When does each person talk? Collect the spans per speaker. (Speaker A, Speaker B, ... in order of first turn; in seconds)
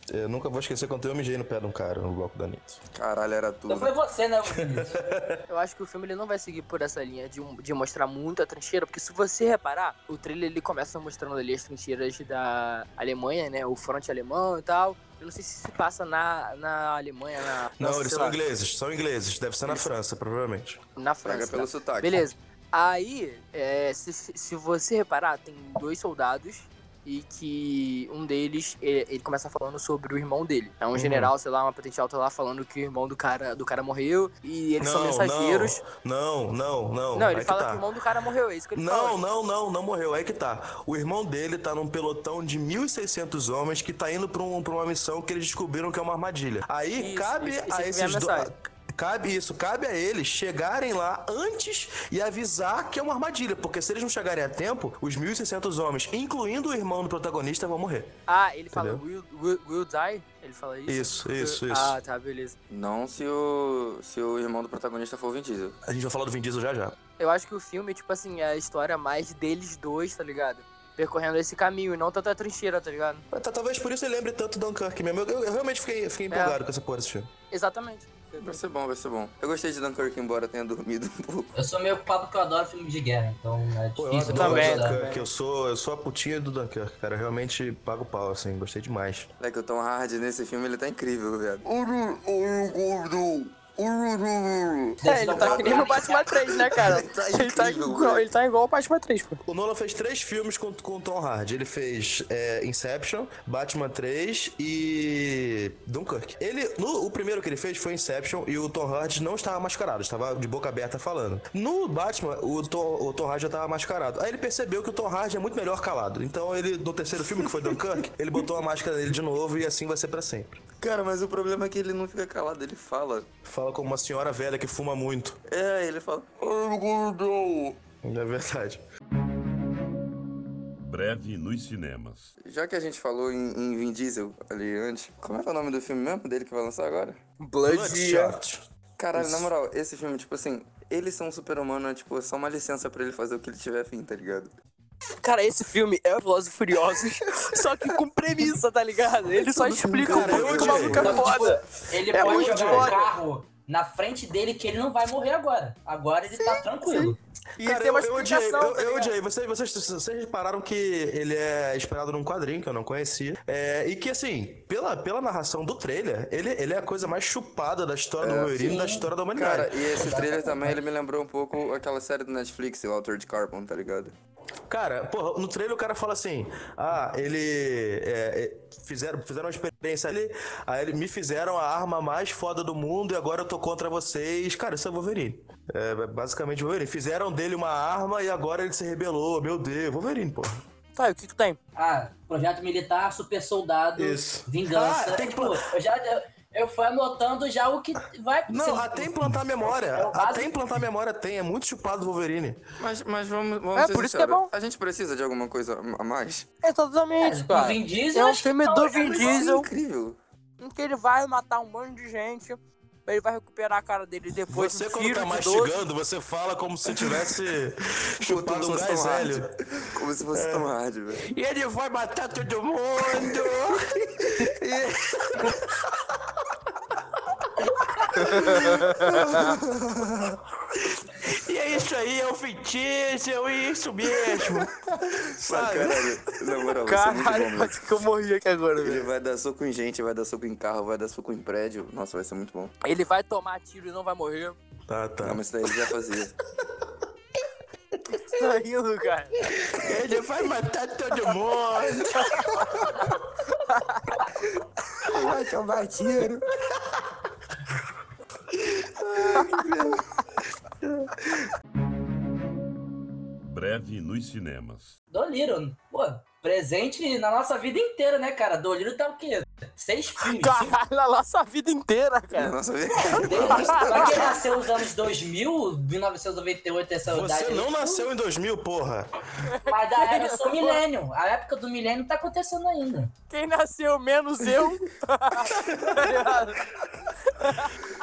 Speaker A: 0.1-2.8, 4.5-5.4, 17.8-20.8, 30.9-31.3, 34.8-37.9, 38.8-58.1, 58.7-59.0, 60.9-62.0, 65.8-67.0, 73.3-77.3, 84.0-89.3, 99.5-120.6, 123.5-125.4, 128.0-128.8, 137.7-138.7, 150.0-151.4, 152.1-152.9, 157.6-169.9, 174.7-190.6, 194.0-195.7, 198.5-202.6, 214.5-219.6, 220.3-227.0, 227.6-236.2, 244.9-245.9, 248.0-248.2, 249.5-253.1, 256.7-257.0, 260.8-261.3, 277.1-279.1, 285.4-286.2
Speaker B: 3.0-3.9, 21.2-22.3, 62.7-65.8, 78.4-81.5, 89.4-98.2, 120.8-123.3, 125.5-127.8, 132.4-137.2, 139.0-144.5, 149.5-151.3, 168.2-174.1, 202.8-206.5, 209.1-210.2, 218.2-221.2, 235.4-237.8, 238.8-242.7, 245.2-246.3, 255.0-256.5, 259.0-260.1, 272.3-274.4
Speaker C: 3.7-5.0, 81.5-85.0, 95.0-96.4, 151.0-157.2, 168.6-169.1, 169.9-170.8, 191.8-200.6, 207.2-209.4, 265.1-270.8, 272.9-278.1, 279.6-283.1
Speaker D: 5.5-18.4, 19.7-19.9, 21.0-35.8, 37.1-39.2, 47.0-48.5, 58.3-62.5, 67.2-73.2, 76.3-76.6, 77.5-78.6, 84.3-85.3, 95.0-99.4, 137.4-138.4, 145.2-153.1, 156.4-159.1, 191.0-191.6, 203.8-204.5, 206.6-209.7, 210.6-215.8, 228.2-229.5, 236.8-239.1, 242.8-244.6, 248.2-249.4, 253.7-254.1, 270.2-272.6, 273.2-274.3, 279.5-280.8, 283.3-286.7, 287.3-287.8
Speaker E: 130.8-132.3, 263.4-264.9